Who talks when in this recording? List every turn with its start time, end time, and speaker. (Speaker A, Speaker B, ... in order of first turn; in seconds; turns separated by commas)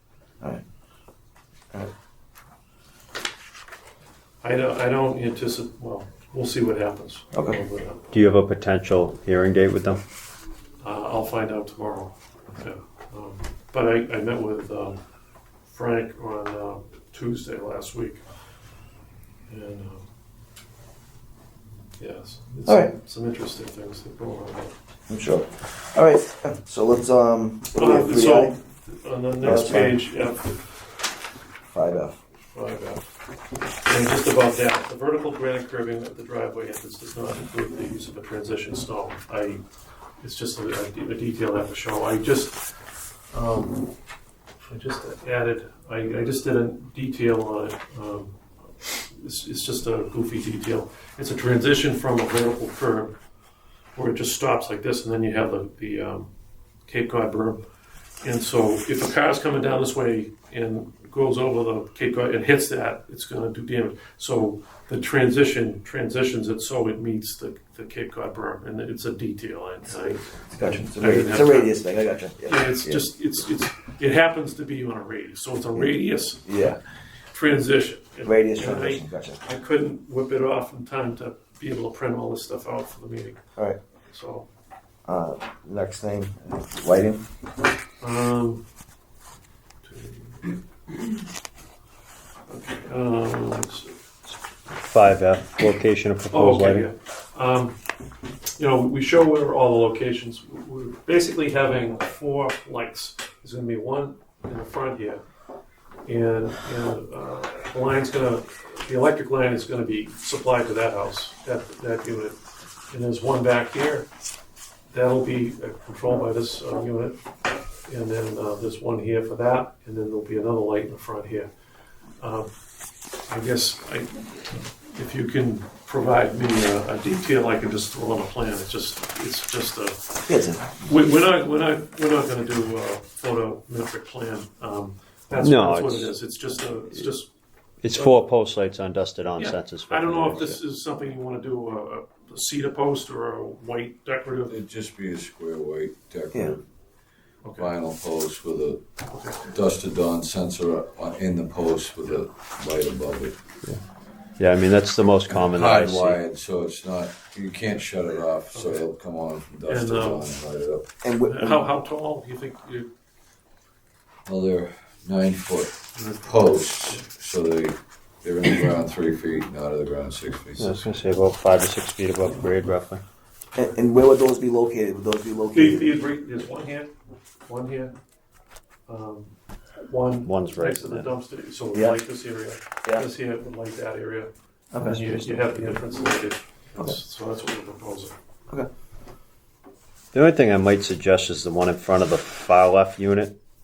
Speaker A: 4.4-8.1, Speaker B: 7.3-7.6, Speaker C: 8.1-10.0, Speaker A: 10.8-15.0, Speaker A: 15.7-18.2, Speaker A: 19.5-20.0, Speaker A: 22.0-24.7, Speaker B: 22.6-22.9, Speaker B: 25.1-28.5, Speaker A: 27.7-30.6, Speaker B: 29.4-30.0, Speaker B: 31.7-32.1, Speaker A: 32.5-33.0, Speaker A: 33.8-39.6, Speaker A: 40.2-42.6, Speaker A: 43.3-43.9, Speaker A: 44.6-48.3, Speaker A: 49.0-53.1, Speaker A: 53.9-56.3, Speaker A: 56.9-57.6, Speaker A: 58.2-71.8, Speaker B: 70.5-73.1, Speaker A: 72.4-76.6, Speaker B: 76.4-76.8, Speaker A: 77.3-83.4, Speaker B: 78.2-79.4, Speaker A: 84.1-84.5, Speaker B: 85.0-87.2, Speaker A: 88.0-88.6, Speaker A: 89.8-90.6, Speaker A: 92.5-93.9, Speaker C: 94.8-96.9, Speaker A: 96.3-97.8, Speaker A: 98.6-105.2, Speaker A: 106.0-112.4, Speaker A: 112.9-114.1, Speaker A: 114.9-117.2, Speaker A: 117.8-121.5, Speaker A: 122.2-122.5, Speaker A: 123.3-130.0, Speaker B: 130.3-130.8, Speaker A: 130.8-137.3, Speaker C: 135.4-136.1, Speaker C: 137.8-140.6, Speaker A: 137.9-138.2, Speaker A: 139.4-144.5, Speaker D: 144.4-146.7, Speaker B: 146.3-146.6, Speaker A: 147.4-147.7, Speaker D: 147.6-148.9, Speaker A: 149.1-149.4, Speaker D: 149.4-153.4, Speaker C: 154.4-156.2, Speaker D: 155.3-160.9, Speaker A: 158.5-158.8, Speaker A: 159.6-160.4, Speaker B: 161.0-161.7, Speaker A: 161.2-162.9, Speaker D: 164.2-171.0, Speaker A: 165.9-167.0, Speaker C: 170.6-173.0, Speaker B: 173.5-175.9, Speaker A: 175.5-176.9, Speaker A: 177.4-177.9, Speaker A: 178.9-179.3, Speaker A: 179.8-188.1, Speaker C: 180.2-181.1, Speaker B: 181.7-182.0, Speaker B: 184.7-185.8, Speaker C: 190.1-193.4